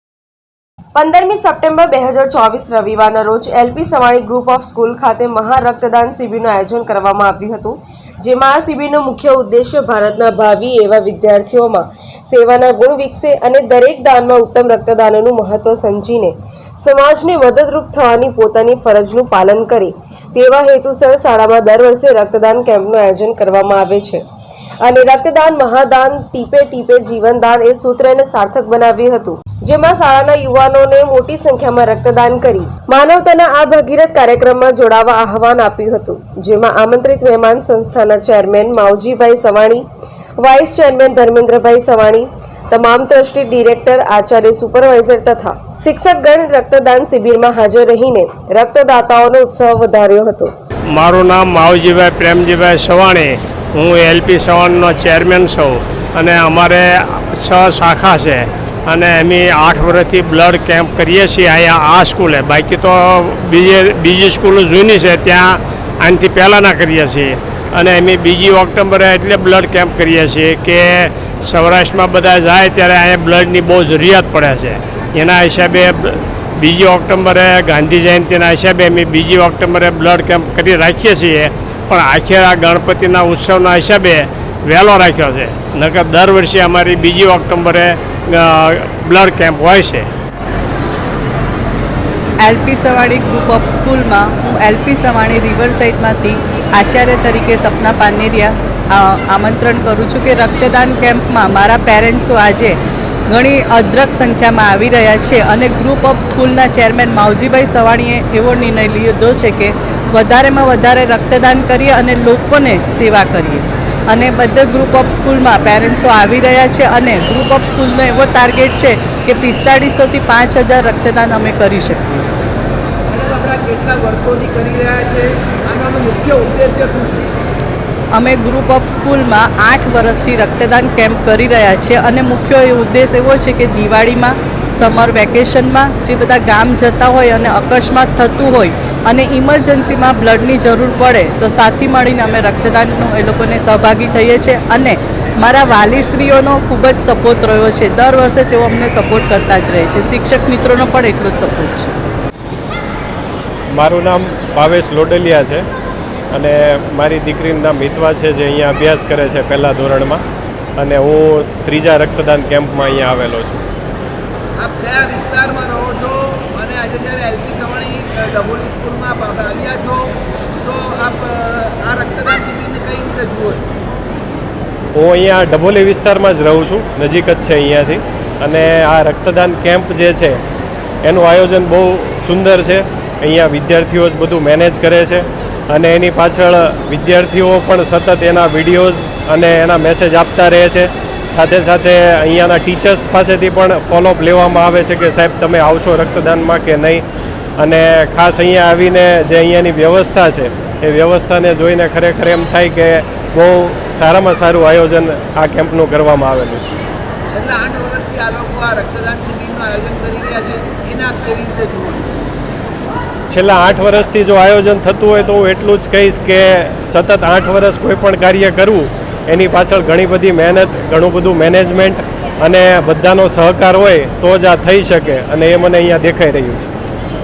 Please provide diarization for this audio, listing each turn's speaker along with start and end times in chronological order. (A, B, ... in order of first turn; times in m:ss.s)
0:01.0-0:24.2 A
0:24.8-0:39.8 A
0:40.4-0:50.5 A
0:50.9-1:30.1 B
1:32.4-2:02.3 C
2:03.1-2:07.3 D
2:08.1-2:32.0 C
2:33.7-2:35.6 E
2:36.3-2:40.2 E
2:40.8-2:43.6 E
2:44.6-2:50.1 D
2:50.6-2:53.7 D
2:55.0-3:00.4 E
3:01.0-3:17.0 E
3:17.6-3:26.8 E
3:27.3-3:32.1 D
3:33.3-3:46.7 E